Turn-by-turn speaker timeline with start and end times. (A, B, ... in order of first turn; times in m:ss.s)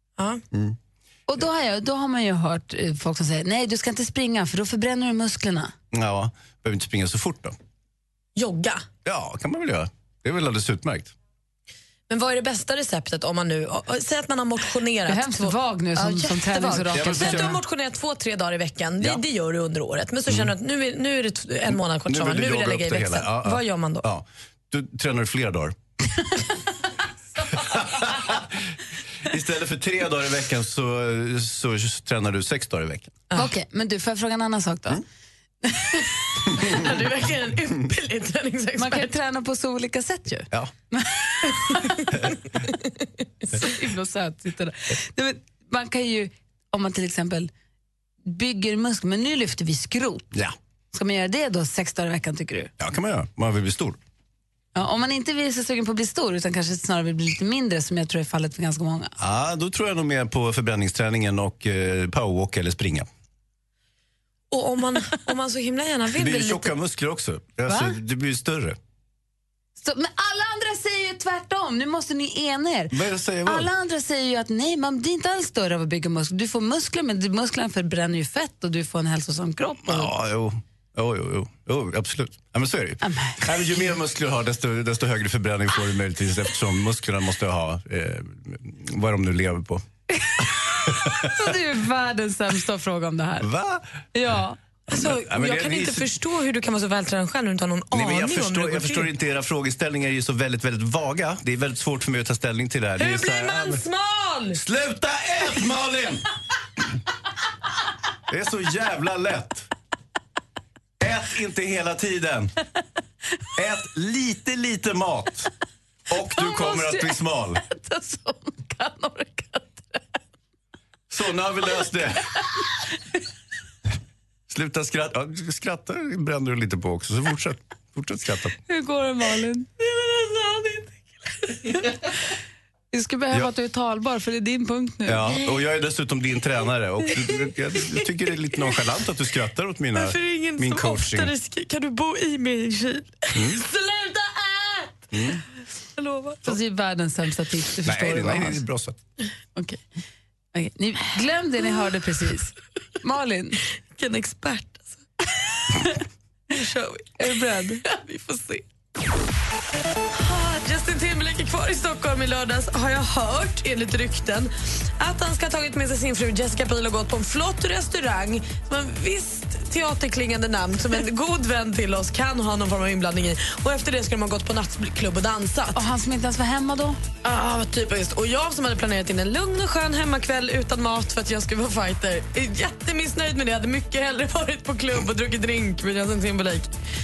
0:00.5-0:00.8 A
0:01.3-0:05.7 B
0:05.9-0:07.6 A
0:08.4-0:08.8 C
0:09.0-0:11.1 A
0:12.1-0:24.1 C
0:15.1-0:17.6 B
0:16.8-0:17.6 A
0:20.3-0:20.5 A
0:21.7-0:25.8 A
0:27.5-0:28.7 A
0:29.2-0:33.2 A
0:33.4-0:35.0 B
0:36.5-0:39.1 C
0:38.8-0:42.0 B
0:43.5-0:47.5 B
0:48.3-0:50.3 B
0:50.9-0:52.7 B
0:52.8-0:54.0 A
0:54.8-0:59.1 B
0:59.2-1:03.1 A
1:04.5-1:06.7 C
1:06.2-1:08.8 A
1:07.7-1:08.0 B
1:09.8-1:20.1 B
1:12.9-1:13.7 A
1:19.8-1:29.8 A
1:23.0-1:23.8 B
1:30.4-1:31.3 A
1:31.0-1:33.5 B
1:33.4-1:33.8 A
1:34.1-1:34.6 B
1:34.9-1:36.1 A
1:34.9-1:39.1 C
1:37.9-1:43.8 A
1:43.0-1:44.6 C
1:44.5-1:46.2 A
1:48.3-1:49.7 A
1:51.0-1:52.5 A
1:53.6-1:55.5 A
1:56.1-1:57.6 A
1:56.3-2:00.0 B
2:01.1-2:02.4 A
2:04.5-2:08.6 A
2:08.7-2:09.7 B
2:09.8-2:11.9 C
2:12.9-2:15.2 B
2:15.1-2:21.3 A
2:19.9-2:24.9 C
2:23.4-2:23.6 A
2:25.1-2:25.4 A
2:26.0-2:26.5 C
2:26.4-2:28.6 B
2:27.8-2:29.0 A
2:29.6-2:29.8 B
2:30.6-2:33.6 B
2:34.0-2:35.0 C
2:36.5-2:37.2 C
2:37.2-2:37.8 B
2:37.8-2:38.6 C
2:40.1-2:55.8 C
2:55.7-2:57.0 B
2:57.2-3:06.7 C